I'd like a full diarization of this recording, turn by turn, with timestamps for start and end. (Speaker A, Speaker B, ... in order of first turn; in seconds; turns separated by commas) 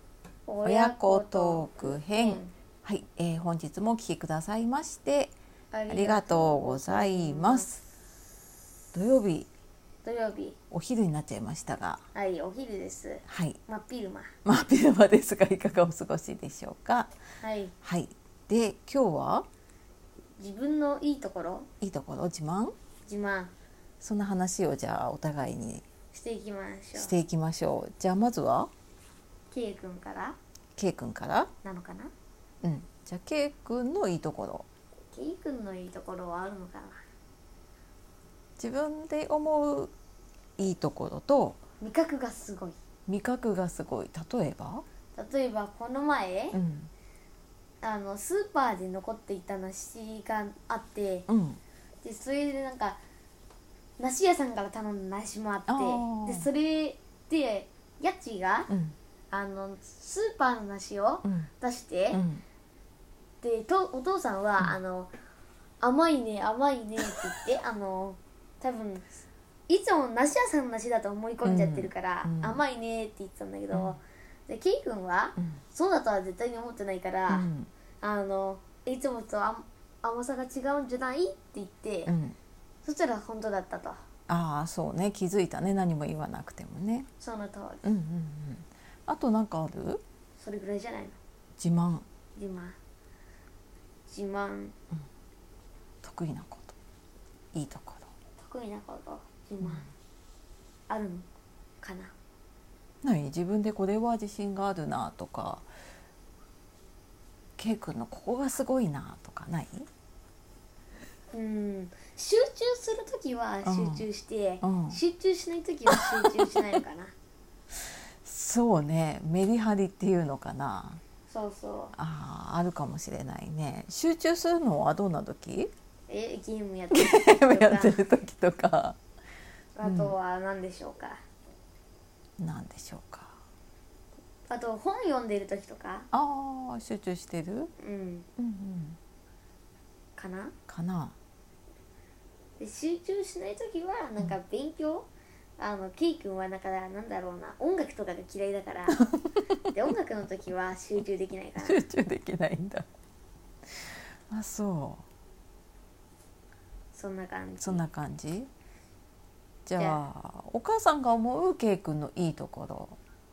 Speaker A: 0.5-2.5, Speaker B: 0.6-5.3, Speaker A: 5.7-7.7, Speaker B: 5.9-7.8, Speaker B: 8.9-9.5, Speaker A: 10.0-10.6, Speaker B: 10.7-12.0, Speaker A: 12.1-14.3, Speaker B: 13.3-13.6, Speaker B: 14.4-17.1, Speaker A: 17.4-17.7, Speaker B: 17.8-19.5, Speaker A: 20.4-21.7, Speaker B: 21.8-22.7, Speaker A: 23.1-23.5, Speaker B: 24.0-25.9, Speaker A: 26.1-27.1, Speaker B: 26.9-28.7, Speaker A: 29.5-30.4, Speaker B: 30.8-31.5, Speaker A: 31.6-32.1, Speaker B: 32.6-34.7, Speaker A: 35.1-37.0, Speaker B: 38.6-39.9, Speaker B: 40.6-41.6, Speaker A: 41.8-42.8, Speaker B: 43.1-44.8, Speaker A: 45.1-46.6, Speaker B: 46.5-46.9, Speaker A: 47.8-51.3, Speaker B: 51.3-51.6, Speaker A: 52.0-53.0, Speaker A: 54.0-58.7, Speaker B: 55.7-56.5, Speaker B: 58.7-59.0, Speaker A: 59.3-62.2, Speaker B: 61.2-61.5, Speaker B: 62.1-62.4, Speaker A: 63.4-65.1, Speaker A: 65.8-69.1, Speaker A: 69.7-77.5, Speaker B: 71.4-72.6, Speaker B: 73.7-74.0, Speaker B: 77.3-77.7, Speaker A: 78.0-82.1, Speaker B: 82.0-82.4, Speaker A: 82.8-84.0, Speaker B: 84.3-87.1, Speaker A: 87.2-87.9, Speaker B: 87.8-90.0, Speaker A: 90.4-91.2, Speaker B: 91.6-92.0, Speaker A: 92.3-92.8, Speaker A: 94.1-94.8, Speaker B: 96.0-96.8, Speaker B: 97.5-98.1, Speaker A: 98.4-99.9, Speaker A: 100.9-101.3, Speaker A: 101.8-102.1, Speaker B: 103.0-105.7, Speaker B: 107.6-109.9, Speaker A: 111.3-117.1, Speaker B: 113.6-114.0, Speaker B: 114.6-115.0, Speaker B: 118.2-121.0, Speaker A: 121.3-121.9, Speaker B: 121.9-125.7, Speaker A: 126.1-128.0, Speaker B: 126.9-129.0, Speaker A: 129.8-131.2, Speaker B: 129.8-130.1, Speaker B: 132.4-133.3, Speaker A: 134.5-136.1, Speaker B: 136.1-137.7, Speaker A: 137.8-138.3, Speaker B: 138.4-139.0, Speaker A: 140.2-140.5, Speaker B: 140.7-141.1, Speaker A: 142.6-149.0, Speaker A: 149.7-151.8, Speaker B: 151.6-152.8, Speaker B: 153.9-155.0, Speaker A: 156.9-157.8, Speaker B: 157.6-158.5, Speaker B: 159.7-163.0